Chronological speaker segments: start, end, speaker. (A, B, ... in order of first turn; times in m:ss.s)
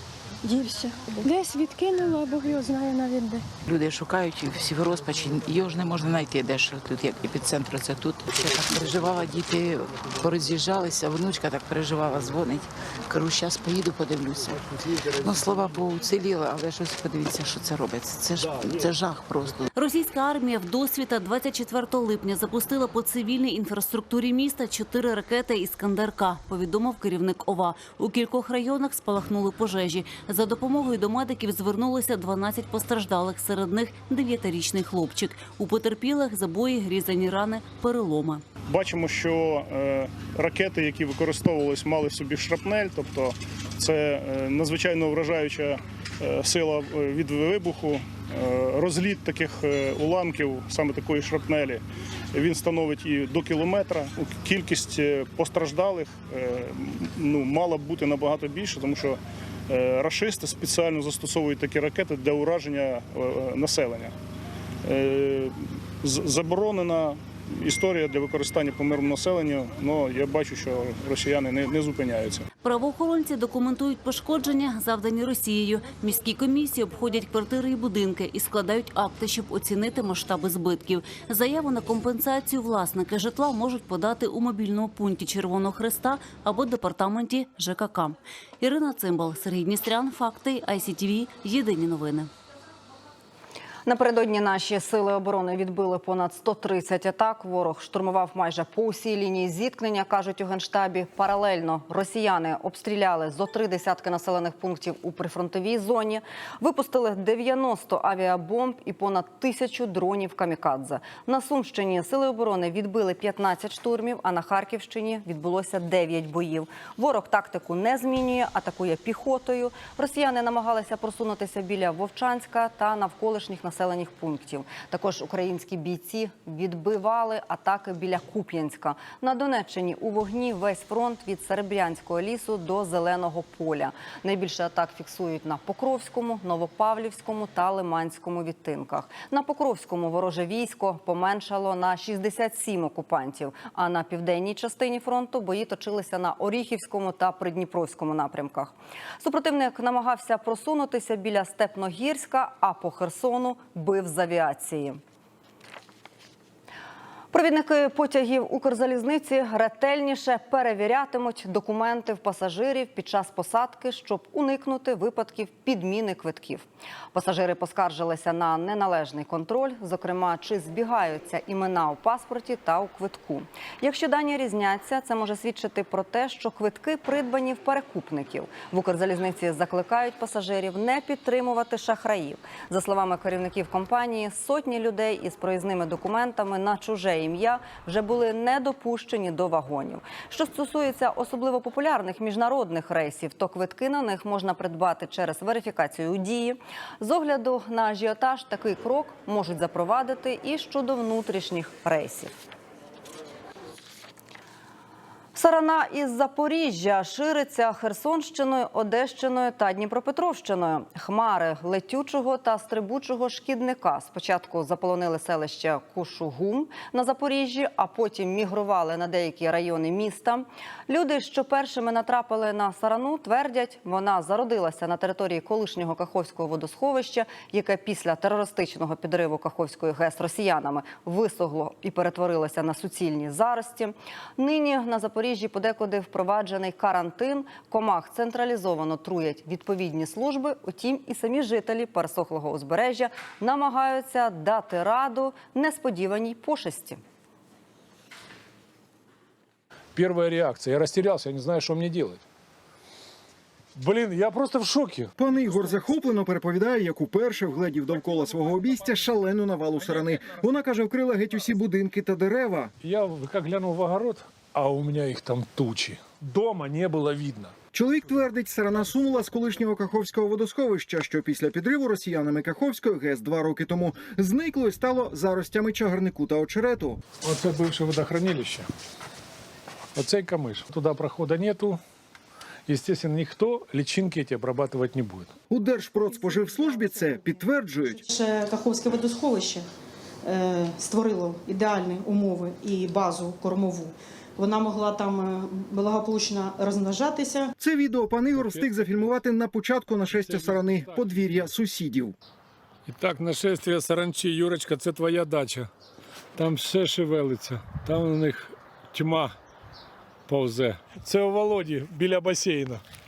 0:00.4-0:03.4 A
0:03.7-0:19.7 B
0:19.8-0:38.4 C
0:38.7-1:04.2 D
1:04.8-1:12.5 D
1:12.6-1:32.3 C
1:33.9-2:35.0 E
2:37.3-3:22.3 E
3:25.4-4:07.0 E
4:10.0-4:12.2 F
4:13.7-4:15.1 F
4:15.2-4:22.7 G
4:22.8-4:27.5 F
4:27.7-4:37.0 G
4:37.2-4:38.7 F
4:40.0-4:41.8 F
4:42.7-4:45.3 F
4:45.5-4:48.0 G
4:48.1-4:49.7 H
4:50.2-4:57.6 H
4:57.6-5:02.2 G
4:58.4-4:59.1 F
5:00.1-5:01.5 F
5:02.9-5:05.7 F
5:06.4-5:09.4 F
5:10.3-5:12.8 F